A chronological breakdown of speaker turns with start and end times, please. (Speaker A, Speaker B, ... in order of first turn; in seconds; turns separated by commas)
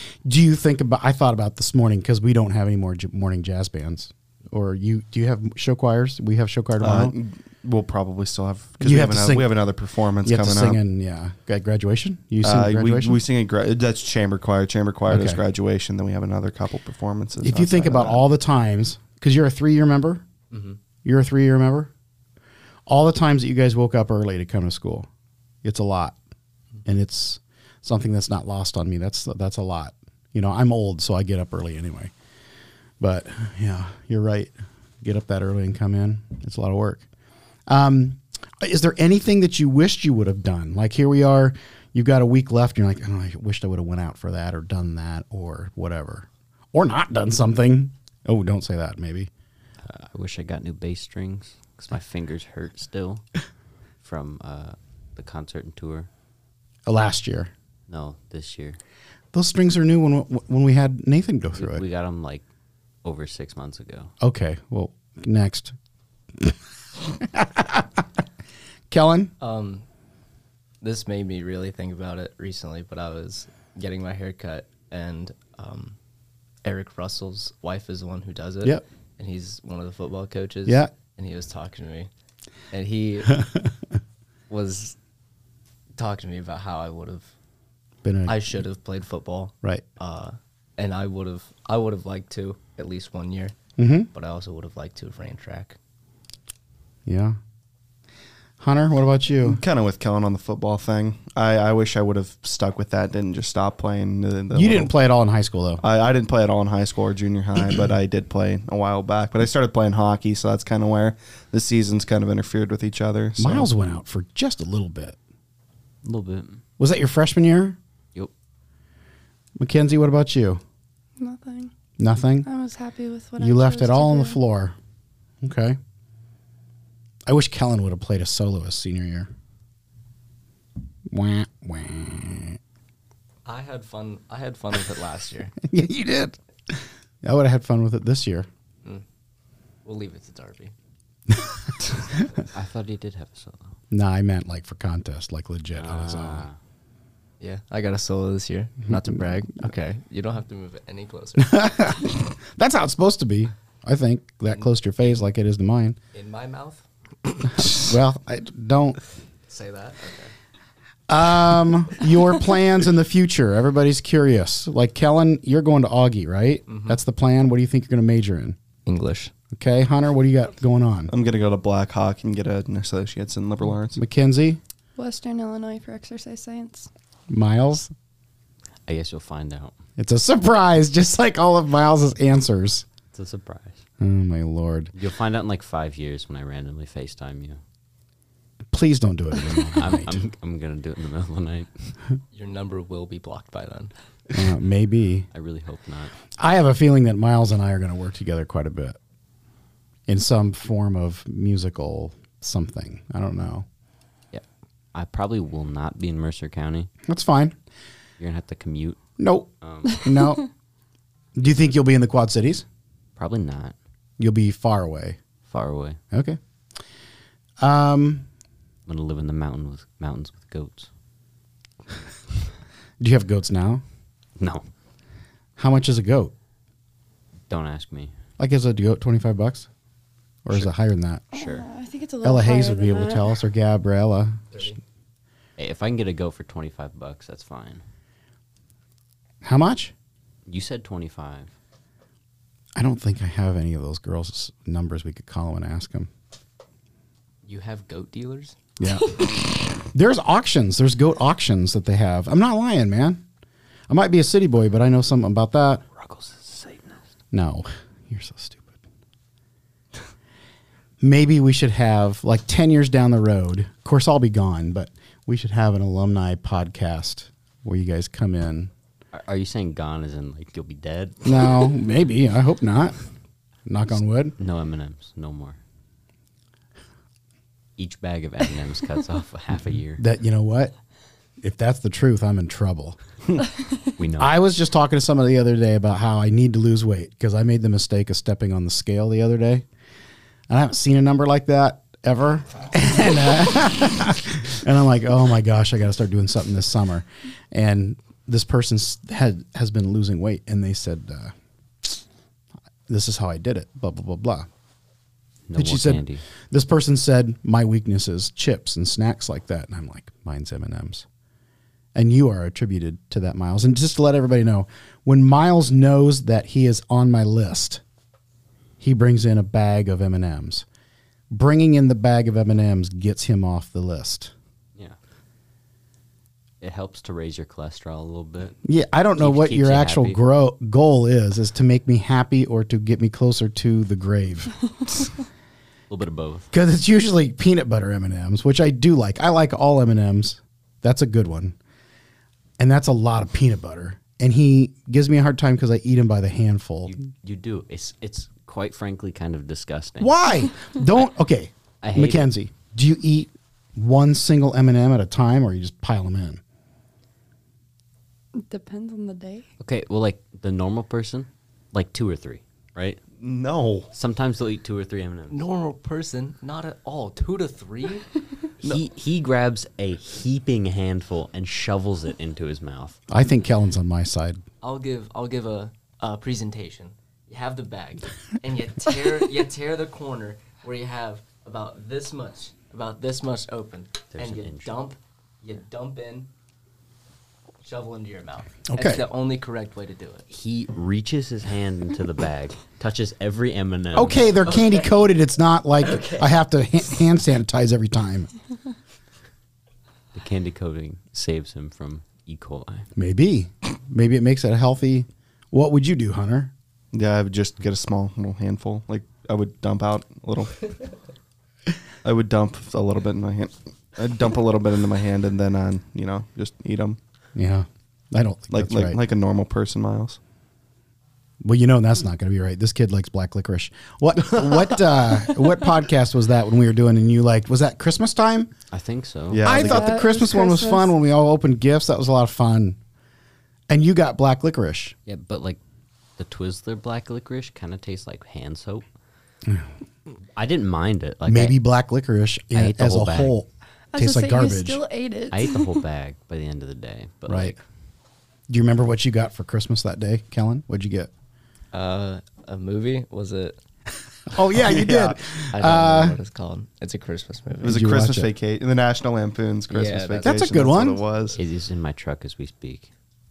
Speaker A: 0.2-7.1, Speaker B: 6.8-10.8, Speaker A: 8.8-9.6, Speaker A: 10.2-13.2, Speaker B: 12.4-18.2, Speaker A: 15.1-15.4, Speaker A: 17.4-20.2, Speaker C: 20.5-20.8, Speaker A: 21.0-21.9, Speaker A: 22.9-25.1, Speaker A: 25.6-26.2, Speaker A: 26.9-32.1, Speaker A: 33.0-37.1, Speaker A: 37.7-49.3, Speaker D: 49.9-53.2, Speaker D: 54.0-56.1, Speaker A: 56.9-57.5, Speaker D: 57.9-58.8, Speaker A: 59.3-61.8, Speaker D: 61.6-62.4, Speaker D: 63.0-64.1, Speaker A: 64.2-65.8, Speaker A: 67.1-68.0, Speaker A: 68.9-69.3, Speaker C: 69.4-69.8, Speaker C: 70.8-76.0, Speaker C: 76.6-82.1, Speaker A: 80.7-80.9, Speaker C: 82.7-83.4, Speaker C: 84.5-85.0, Speaker C: 86.0-87.3, Speaker A: 88.0-88.6, Speaker C: 88.3-93.5, Speaker A: 93.8-94.1, Speaker C: 94.1-95.8, Speaker A: 97.1-97.4, Speaker A: 98.6-99.6, Speaker B: 99.5-104.9, Speaker A: 104.5-105.8, Speaker B: 105.8-113.7, Speaker A: 113.4-115.2, Speaker D: 116.0-116.6, Speaker A: 116.8-117.8, Speaker A: 119.6-120.6, Speaker E: 121.2-121.7, Speaker A: 122.0-122.5, Speaker E: 122.4-124.4, Speaker A: 123.4-124.8, Speaker A: 125.4-125.8, Speaker A: 127.3-129.3, Speaker A: 131.1-132.6, Speaker C: 133.4-135.5, Speaker A: 135.6-138.5, Speaker C: 139.8-140.7, Speaker A: 141.3-141.6, Speaker D: 142.5-143.8, Speaker A: 143.9-146.5, Speaker D: 145.8-146.6, Speaker C: 147.4-151.7, Speaker A: 151.4-156.0, Speaker C: 154.5-155.2, Speaker C: 156.1-156.8, Speaker A: 157.5-159.0, Speaker C: 159.5-160.3, Speaker A: 161.1-168.6, Speaker C: 166.7-167.0, Speaker C: 168.9-169.3, Speaker A: 169.5-171.1, Speaker B: 171.1-174.0, Speaker A: 174.0-174.6, Speaker E: 175.0-176.9, Speaker A: 177.3-177.9, Speaker D: 178.9-179.8, Speaker A: 180.0-182.9, Speaker D: 183.1-183.8, Speaker A: 184.0-184.9, Speaker D: 184.9-187.6, Speaker A: 188.7-190.3, Speaker D: 189.4-191.9, Speaker C: 192.3-193.9, Speaker A: 194.3-195.3, Speaker D: 195.3-196.1, Speaker A: 196.4-199.0, Speaker A: 200.1-203.7, Speaker D: 204.9-206.9, Speaker A: 207.1-207.6, Speaker D: 208.2-209.0, Speaker A: 209.2-210.4, Speaker D: 209.6-209.9, Speaker A: 211.3-212.7, Speaker D: 213.2-213.8, Speaker A: 214.2-215.2, Speaker D: 215.5-216.0, Speaker A: 216.1-216.4, Speaker A: 217.6-218.3, Speaker D: 218.9-220.9, Speaker A: 223.0-223.8, Speaker D: 224.4-224.7, Speaker A: 225.6-226.3, Speaker D: 227.5-228.1, Speaker A: 228.4-229.7, Speaker A: 230.4-231.3, Speaker D: 231.3-231.7, Speaker E: 231.3-233.3, Speaker A: 232.2-234.4, Speaker C: 234.5-234.8, Speaker D: 235.6-237.8, Speaker A: 239.4-239.9, Speaker D: 240.5-241.5, Speaker A: 242.8-246.1, Speaker C: 247.5-248.6, Speaker A: 248.8-253.2, Speaker A: 253.9-255.8, Speaker D: 256.0-257.0, Speaker A: 257.3-258.8, Speaker A: 261.0-268.7, Speaker D: 269.1-271.7, Speaker A: 271.2-273.0, Speaker A: 273.7-274.4, Speaker D: 274.4-275.6, Speaker D: 277.8-280.0, Speaker A: 280.0-280.7, Speaker A: 281.4-283.0, Speaker D: 284.0-284.4, Speaker A: 284.2-289.6, Speaker A: 290.5-302.0, Speaker A: 302.9-304.5, Speaker D: 305.5-306.2, Speaker A: 305.6-311.1, Speaker A: 311.9-317.8, Speaker A: 318.8-320.6, Speaker A: 321.3-324.3, Speaker D: 326.6-328.6, Speaker A: 328.6-334.5, Speaker D: 329.2-330.2, Speaker D: 335.9-336.5, Speaker A: 336.5-341.6, Speaker A: 342.6-346.9, Speaker D: 346.9-350.1, Speaker A: 350.0-356.4, Speaker D: 351.8-352.3, Speaker E: 358.4-359.5, Speaker D: 359.6-363.0, Speaker B: 363.2-363.9, Speaker D: 363.9-365.4, Speaker C: 365.3-368.1, Speaker D: 368.6-373.0, Speaker A: 373.1-374.4, Speaker C: 374.6-386.3, Speaker D: 384.1-384.7, Speaker C: 387.6-390.3, Speaker A: 388.7-389.1, Speaker D: 390.3-394.4, Speaker A: 393.9-398.3, Speaker C: 394.4-395.0, Speaker C: 395.8-396.3, Speaker D: 400.1-402.9, Speaker A: 402.9-406.5, Speaker B: 406.9-410.8, Speaker B: 412.0-417.0, Speaker A: 417.4-419.0, Speaker B: 418.5-420.2, Speaker A: 421.4-428.5, Speaker D: 428.7-429.4, Speaker B: 429.3-430.0, Speaker A: 429.4-432.8, Speaker E: 429.5-430.9, Speaker A: 433.7-434.9, Speaker D: 435.1-435.6, Speaker D: 436.2-438.9, Speaker D: 440.4-441.6, Speaker A: 441.3-444.8, Speaker D: 442.5-443.4, Speaker E: 443.9-445.7, Speaker D: 445.3-447.6, Speaker A: 447.3-447.6, Speaker A: 448.5-451.1, Speaker C: 451.7-453.6, Speaker A: 454.3-456.2, Speaker B: 454.6-455.2, Speaker C: 455.5-457.8, Speaker B: 457.6-461.4, Speaker A: 457.6-458.3, Speaker C: 459.7-460.5, Speaker A: 460.2-461.0, Speaker D: 461.4-462.9